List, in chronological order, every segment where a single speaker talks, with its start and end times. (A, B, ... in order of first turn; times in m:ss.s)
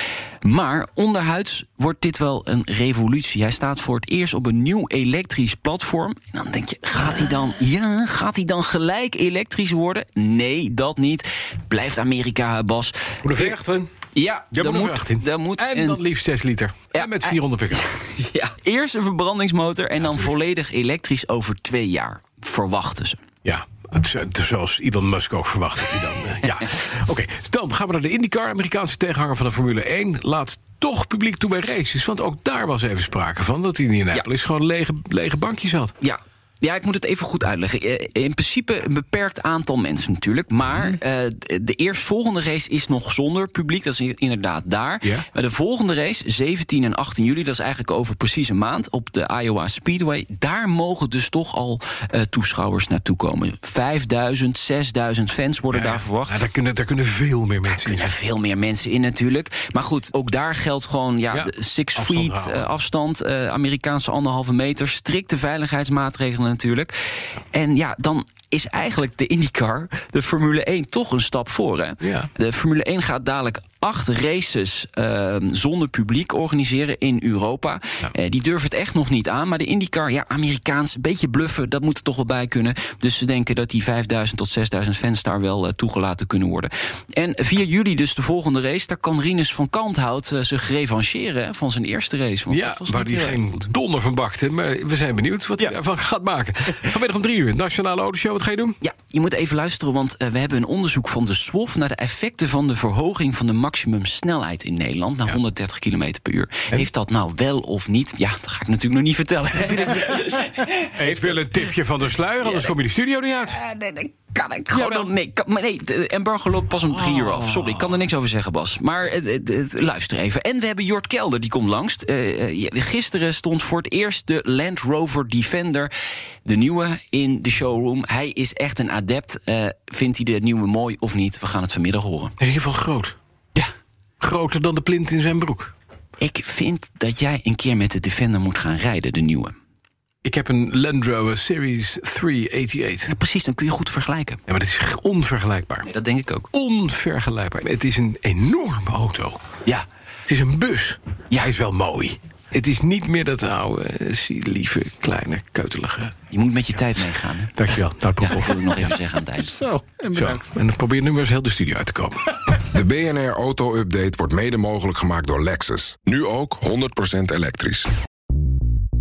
0:00.4-0:13.6 A
0:13.2-0:13.9 B
0:14.1-0:16.0 A
0:14.5-0:17.9 B
0:16.9-0:23.2 A
0:23.4-0:35.9 B
0:36.0-0:56.4 A
0:55.7-0:58.1 B
0:57.7-1:33.4 A
1:01.3-1:02.7 B
1:12.0-1:12.3 B
1:32.5-1:38.8 B
1:38.8-1:51.3 A
1:51.0-1:53.6 B
1:52.4-1:52.7 A
1:53.5-2:05.9 A
1:54.7-1:55.1 B
1:56.9-1:57.9 B
2:06.4-2:12.3 A
2:12.4-2:13.2 B
2:14.2-2:15.7 B
2:16.2-2:19.6 A
2:20.2-2:23.1 B
2:23.1-2:24.4 A
2:24.5-2:25.9 B
2:25.9-2:26.5 A
2:26.5-2:29.4 B
2:30.3-2:36.2 B
2:36.3-2:37.6 A
2:37.6-2:38.9 B
2:38.2-2:39.6 A
2:40.0-2:42.5 B
2:42.7-2:47.9 C